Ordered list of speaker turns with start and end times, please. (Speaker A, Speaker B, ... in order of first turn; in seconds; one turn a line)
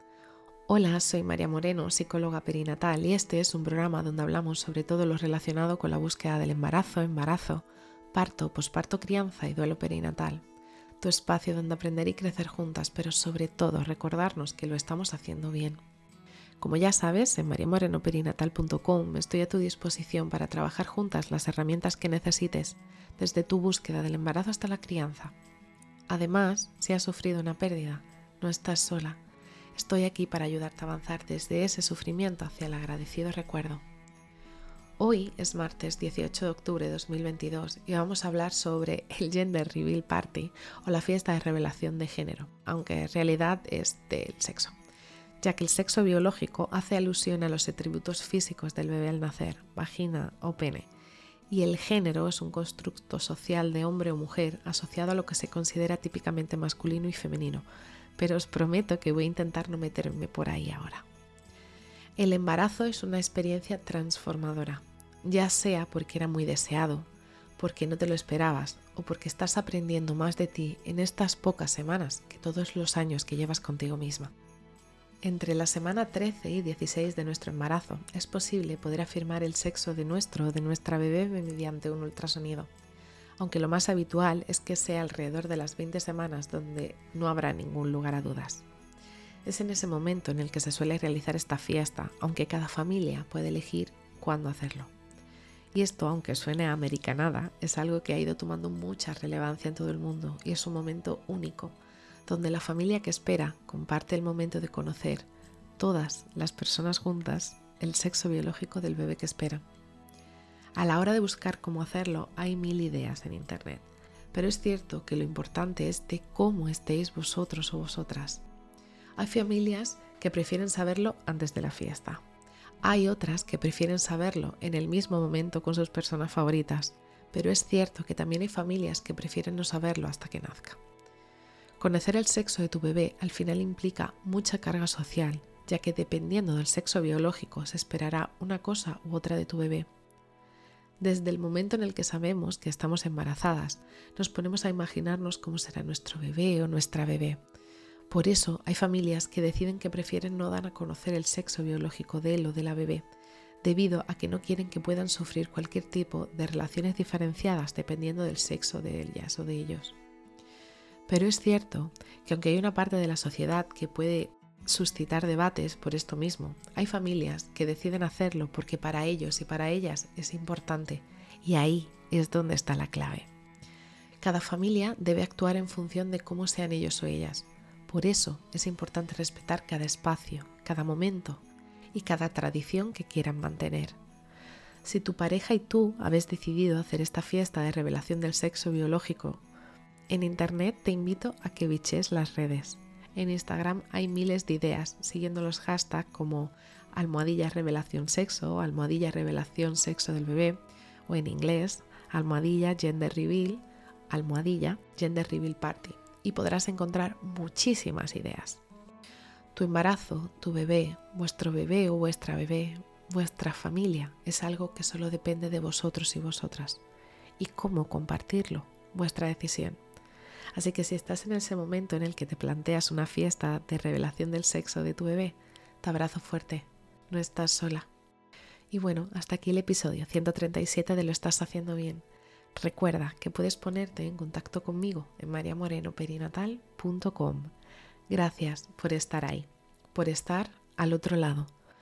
Speaker A: 0.7-10.4
Speaker A: 11.0-15.8
Speaker A: 16.6-25.4
Speaker A: 26.1-29.2
Speaker A: 29.8-33.8
Speaker A: 35.0-44.8
Speaker A: 45.4-50.9
Speaker A: 51.5-57.7
Speaker A: 58.2-61.1
Speaker A: 62.2-74.3
Speaker A: 75.2-82.7
Speaker A: 83.4-88.7
Speaker A: 89.5-94.9
Speaker A: 95.7-105.3
Speaker A: 105.8-109.6
Speaker A: 110.8-118.4
Speaker A: 119.2-122.2
Speaker A: 122.8-130.8
Speaker A: 131.8-139.9
Speaker A: 141.0-147.4
Speaker A: 148.1-153.1
Speaker A: 153.6-160.0
Speaker A: 161.1-173.3
Speaker A: 174.2-184.0
Speaker A: 184.8-189.4
Speaker A: 190.1-208.6
Speaker A: 209.6-216.8
Speaker A: 217.4-219.8
Speaker A: 220.6-227.9
Speaker A: 228.7-237.5
Speaker A: 238.1-241.5